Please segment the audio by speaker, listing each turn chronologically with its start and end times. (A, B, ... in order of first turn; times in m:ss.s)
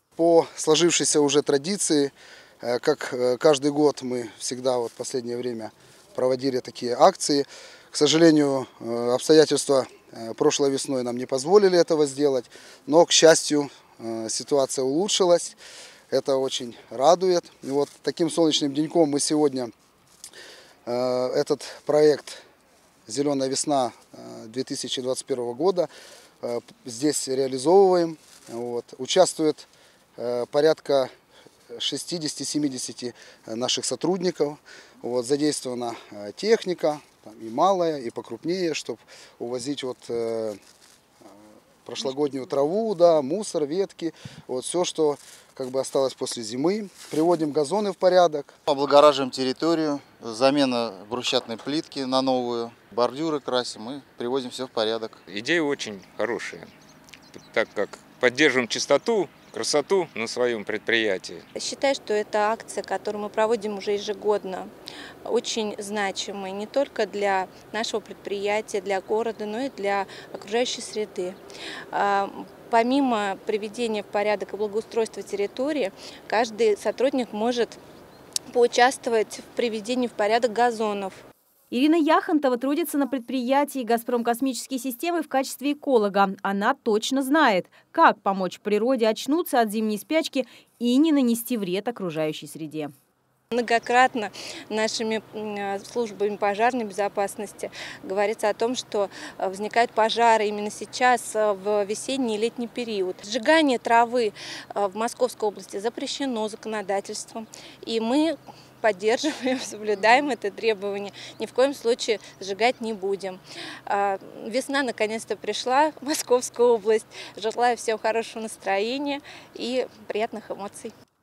0:00.2-0:15.6 A
0:16.1-0:19.7 A
0:20.8-0:22.4 A
0:23.1-0:25.9 A
0:26.4-0:31.1 A
0:31.7-0:40.6 A
0:41.8-0:48.5 A
0:48.7-0:55.2 B
0:55.3-0:56.7 C
0:57.3-1:01.4 C
1:01.6-1:04.7 D
1:05.2-1:11.4 D
1:11.9-1:17.8 D
1:18.5-1:21.2 D
1:21.7-1:32.9 E
1:33.5-2:00.9 D